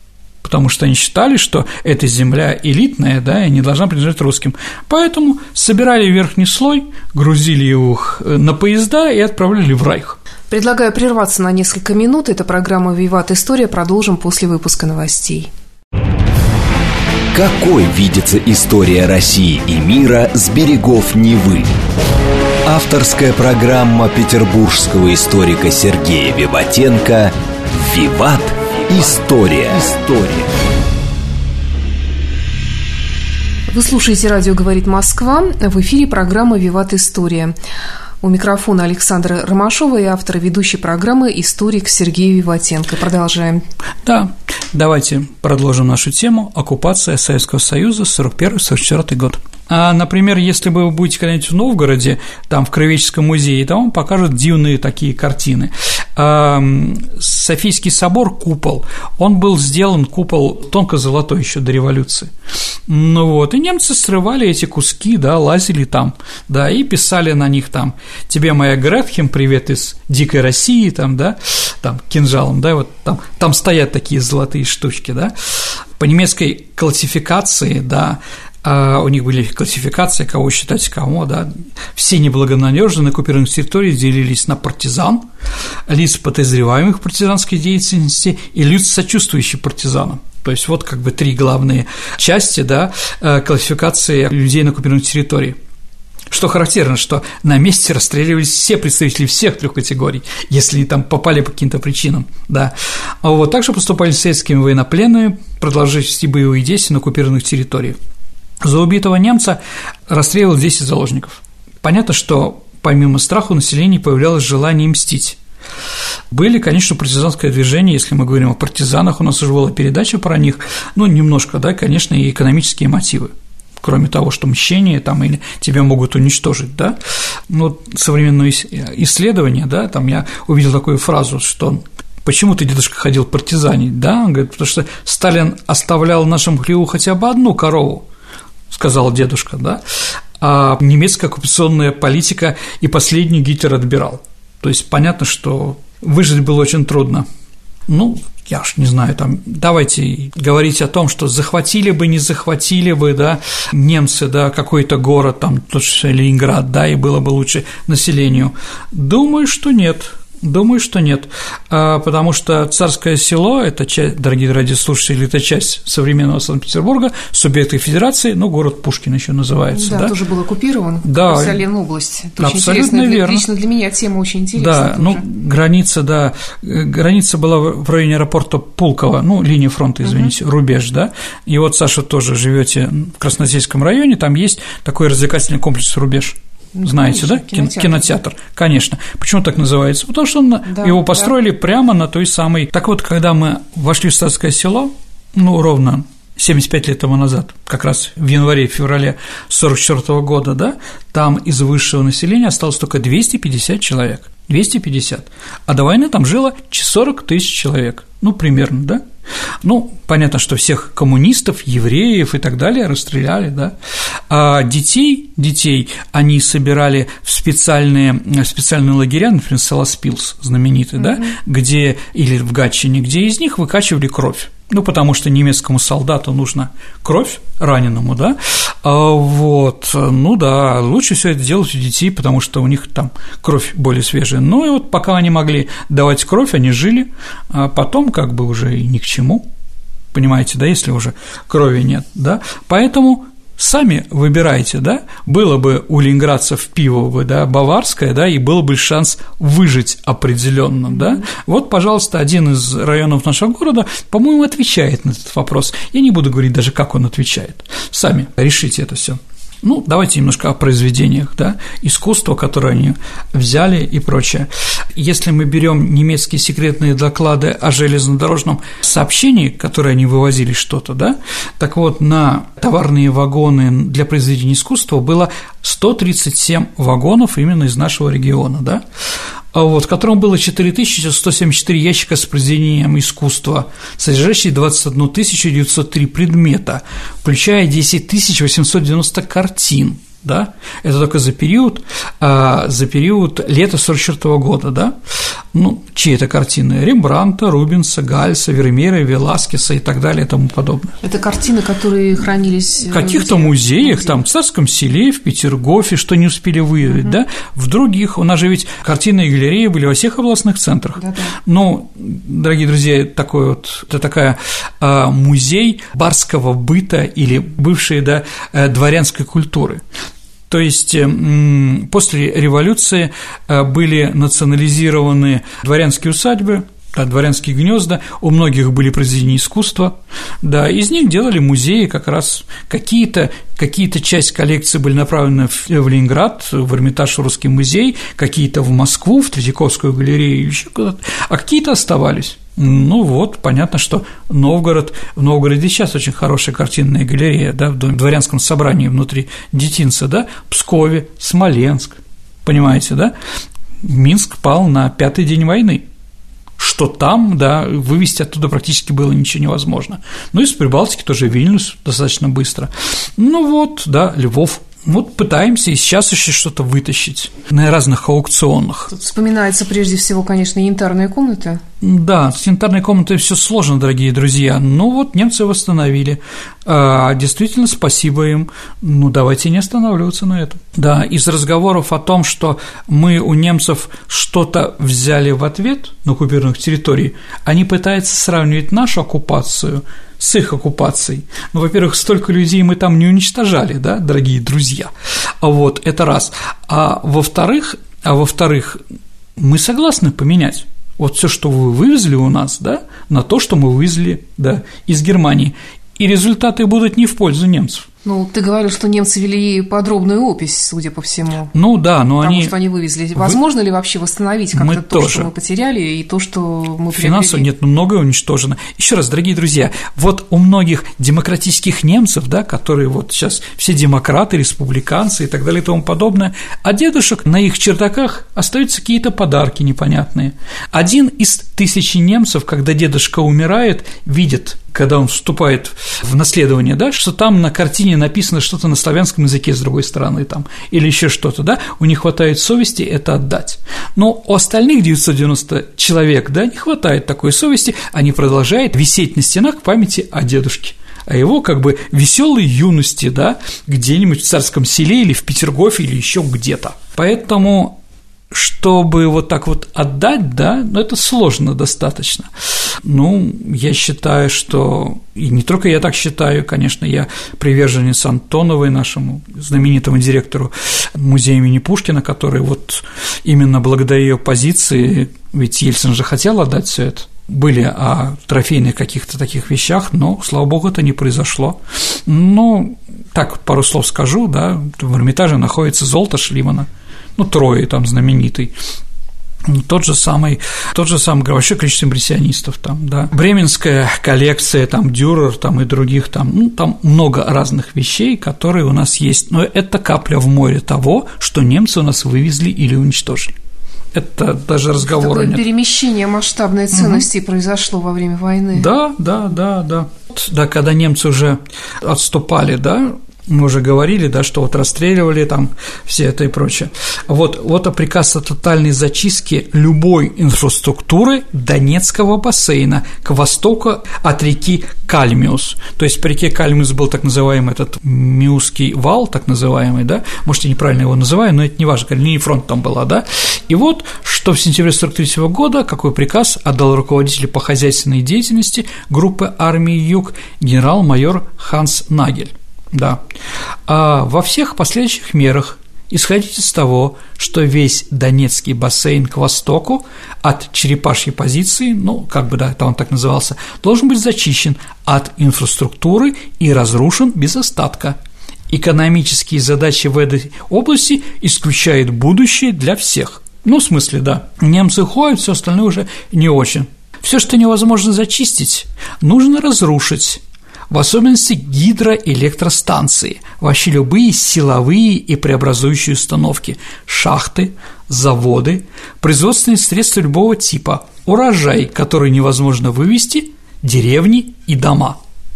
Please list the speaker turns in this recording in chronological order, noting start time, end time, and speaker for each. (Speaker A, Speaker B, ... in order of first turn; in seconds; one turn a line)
Speaker A: 0.4-10.2
Speaker B: 10.5-15.5
Speaker C: 17.3-21.7
Speaker C: 22.7-30.5
Speaker B: 33.7-37.5
Speaker B: 38.2-43.6
Speaker A: 44.0-62.3
Speaker A: 62.9-85.3
Speaker A: 85.9-95.6
Speaker A: 96.3-108.0
Speaker A: 108.6-115.4
Speaker A: 116.3-127.0
Speaker A: 127.5-138.1
Speaker A: 138.7-139.8
Speaker A: 140.4-147.3
Speaker A: 147.9-170.2
Speaker B: 169.7-175.2
Speaker A: 171.1-171.6
Speaker A: 172.4-173.5
Speaker A: 174.6-209.0
Speaker B: 186.8-188.1
Speaker B: 190.7-191.3
Speaker A: 209.6-213.8
Speaker A: 214.3-239.5
Speaker A: 240.1-278.8
Speaker A: 279.5-295.0
Speaker A: 295.5-301.0
Speaker B: 301.0-304.2
Speaker A: 302.9-319.8
Speaker B: 311.0-311.4
Speaker A: 320.5-353.1
Speaker A: 353.8-355.9
Speaker A: 356.6-368.9
Speaker B: 368.9-371.6
Speaker A: 371.8-398.8
Speaker A: 399.4-407.9
Speaker B: 408.1-411.5
Speaker A: 411.5-412.6
Speaker B: 412.2-417.5
Speaker A: 414.5-415.3
Speaker A: 416.9-457.8
Speaker A: 458.3-488.5
Speaker A: 489.4-503.4
Speaker A: 503.9-505.4
Speaker B: 504.8-508.7
Speaker A: 506.7-507.1
Speaker A: 508.5-543.0
Speaker A: 543.7-558.0
Speaker A: 558.5-585.0